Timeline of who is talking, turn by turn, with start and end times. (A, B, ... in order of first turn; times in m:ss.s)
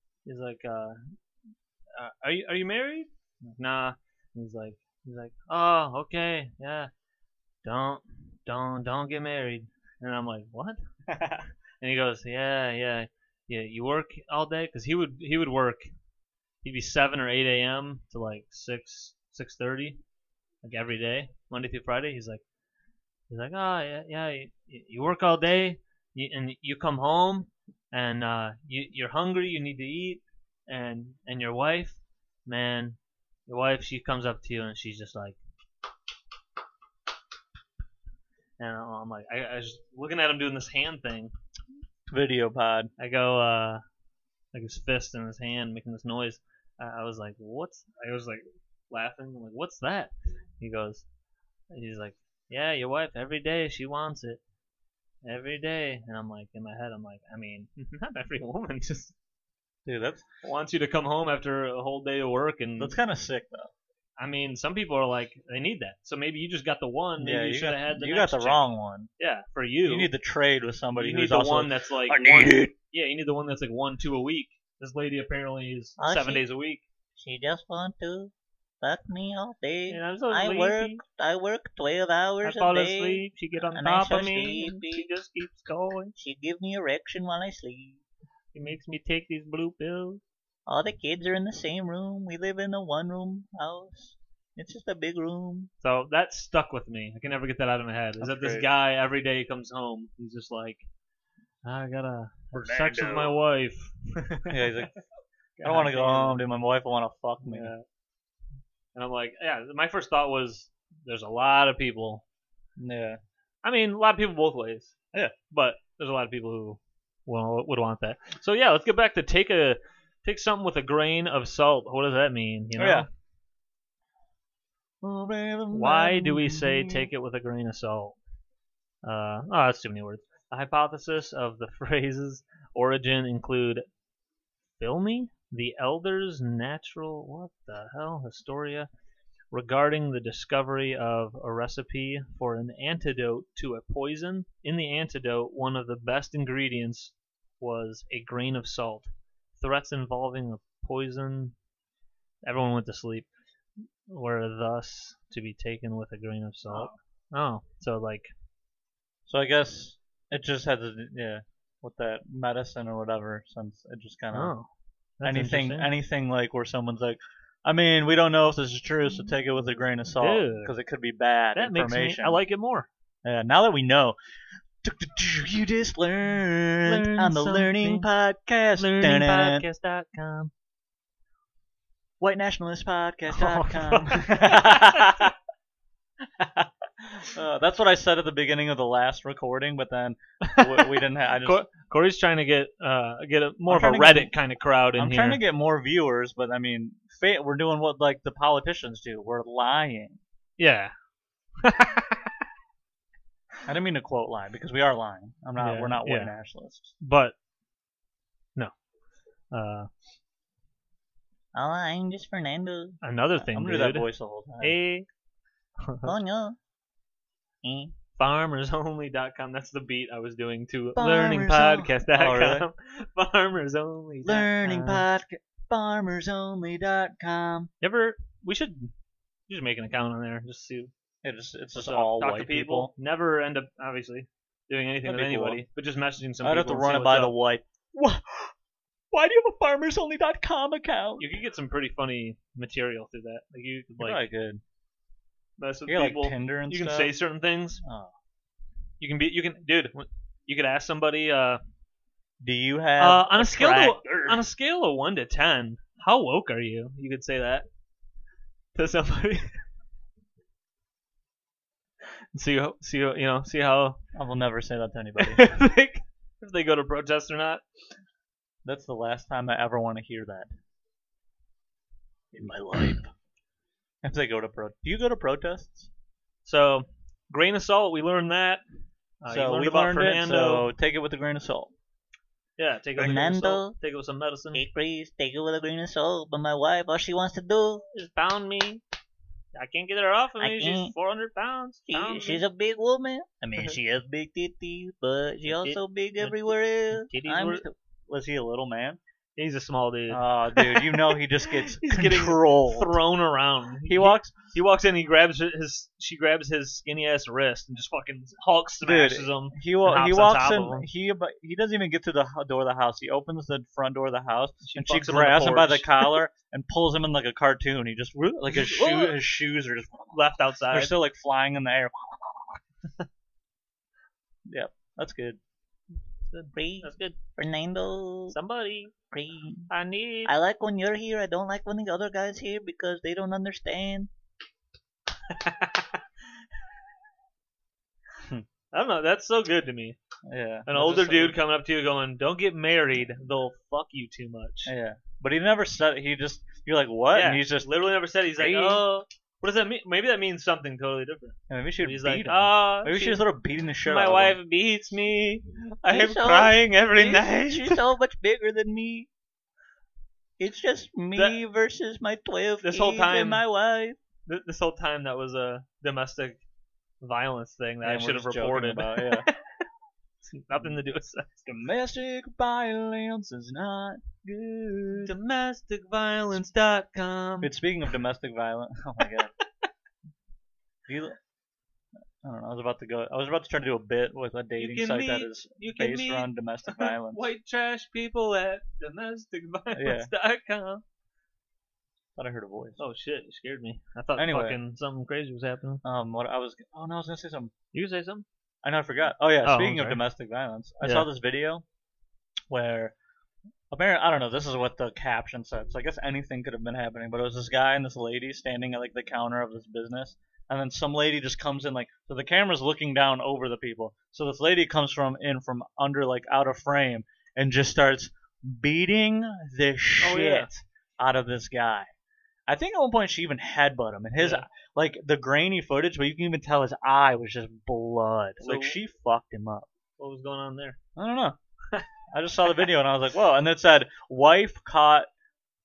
0:00.2-0:01.1 A
0:01.9-0:06.9 A
0:07.6-0:10.8 A
0:11.1-0:11.5 B
0:11.8-0:15.9 A
0:16.6-0:20.0 A
0:20.6-0:22.4 A
0:23.3-0:35.4 A
0:38.6-0:41.3 A
0:42.1-0:42.9 B
0:43.0-0:43.8 A
0:44.5-0:51.1 A
0:51.7-0:54.4 A
0:55.2-0:59.2 A
0:59.9-1:00.2 B
1:00.4-1:03.0 A
1:02.8-1:03.7 B
1:04.2-1:08.6 A
1:07.2-1:09.1 B
1:09.2-1:10.1 A
1:09.9-1:12.7 B
1:11.0-1:16.8 A
1:16.0-1:16.4 C
1:17.2-1:18.3 C
1:18.8-1:25.1 C
1:19.9-1:21.0 A
1:22.4-1:26.1 A
1:26.2-1:28.0 C
1:28.5-1:30.2 A
1:30.7-1:35.7 C
1:35.8-1:40.9 A
1:38.2-1:38.7 B
1:41.6-1:44.9 A
1:42.5-1:43.4 B
1:44.5-1:44.9 B
1:45.6-1:46.4 A
1:45.6-1:47.7 B
1:47.4-1:47.8 A
1:49.0-1:52.2 A
1:52.8-1:53.2 B
1:53.6-1:54.9 A
1:55.5-2:03.1 A
2:02.8-2:03.1 B
2:05.0-2:07.1 B
2:05.7-2:08.2 A
2:09.0-2:13.8 A
2:14.8-2:18.9 A
2:19.5-2:31.6 A
2:32.5-2:33.3 A
2:34.1-2:38.3 A
2:39.3-2:44.5 B
2:44.3-2:45.9 A
2:45.2-2:52.4 B
2:50.2-2:50.7 A
2:51.6-2:52.9 A
2:53.2-2:54.2 B
2:54.8-2:59.6 B
2:56.9-2:58.1 A
2:58.8-3:00.5 A
3:02.2-3:05.3 B
3:03.3-3:05.3 A
3:06.4-3:11.6 B
3:10.4-3:15.4 A
3:13.7-3:14.3 B
3:15.0-3:20.2 B
3:20.6-3:20.9 A
3:21.6-3:22.5 A
3:23.7-3:26.9 B
3:25.6-3:26.3 A
3:27.0-3:27.4 A
3:29.5-3:29.9 A
3:31.5-3:33.0 C
3:33.0-3:34.1 A
3:33.4-3:34.8 B
3:34.6-3:35.1 A
3:35.8-3:36.1 A
3:36.0-3:36.6 C
3:37.6-3:37.9 C
3:38.2-3:45.1 A
3:41.0-3:42.7 B
3:44.2-3:47.7 B
3:47.8-3:48.9 A
3:49.5-3:50.9 A
3:51.2-3:52.9 B
3:51.8-3:57.3 A
3:55.0-3:55.6 B
3:56.4-3:58.5 B
3:59.1-4:01.4 B
4:01.2-4:04.2 A
4:04.0-4:04.6 B
4:05.6-4:07.8 A
4:05.9-4:07.1 B
4:07.8-4:08.1 B
4:09.0-4:11.6 A
4:12.4-4:14.4 B
4:13.0-4:17.7 A
4:18.8-4:19.6 A
4:22.3-4:24.0 A
4:24.2-4:25.4 B
4:25.2-4:27.6 A
4:28.6-4:30.5 B
4:32.3-4:33.1 B
4:34.0-4:35.9 B
4:36.4-4:38.6 A
4:39.2-4:40.7 A
4:39.3-4:41.7 B
4:42.6-4:44.6 A
4:43.0-4:43.8 C
4:44.5-4:47.8 C
4:47.9-4:48.8 A
4:49.6-4:52.4 A
4:50.4-4:50.9 C
4:51.9-4:57.8 C
4:55.5-4:57.6 A
4:58.1-4:59.0 B
4:59.4-5:10.9 A
5:00.1-5:03.0 B
5:03.9-5:04.4 B
5:08.8-5:22.6 B
5:14.6-5:16.2 A
5:18.5-5:19.2 A
5:20.1-5:21.0 A
5:24.5-5:25.4 B
5:26.3-5:27.2 A
5:26.5-5:28.4 C
5:28.3-5:28.9 A
5:29.1-5:29.7 C
5:29.7-5:30.3 A
5:30.3-5:34.1 C
5:35.2-5:36.1 A
5:38.7-5:40.0 A
5:40.3-5:41.4 B
5:40.7-5:44.7 A
5:44.7-5:48.8 B
5:47.1-5:53.2 A
5:51.5-5:54.4 B
5:53.8-5:57.8 A
5:55.9-5:59.1 C
6:00.4-6:04.0 C
6:01.2-6:01.4 A
6:02.6-6:03.4 A
6:04.3-6:06.4 A
6:07.0-6:09.7 A
6:07.8-6:09.3 B
6:10.3-6:11.3 A
6:11.4-6:15.1 B
6:15.0-6:17.5 A
6:17.4-6:19.3 B
6:20.9-6:21.2 B
6:22.2-6:27.3 B
6:24.6-6:30.8 A
6:29.8-6:30.1 B
6:32.2-6:32.8 B
6:32.8-6:35.8 A
6:34.2-6:34.6 B
6:35.8-6:37.5 B
6:37.7-6:38.3 A
6:38.6-6:41.6 B
6:39.4-6:40.0 A
6:40.8-6:41.1 A
6:42.5-6:42.9 B
6:43.7-7:01.9 B
7:00.0-7:00.5 A
7:02.5-7:09.7 B
7:04.2-7:04.4 A
7:08.4-7:08.8 A
7:10.0-7:10.8 A
7:11.0-7:11.4 B
7:12.1-7:15.1 B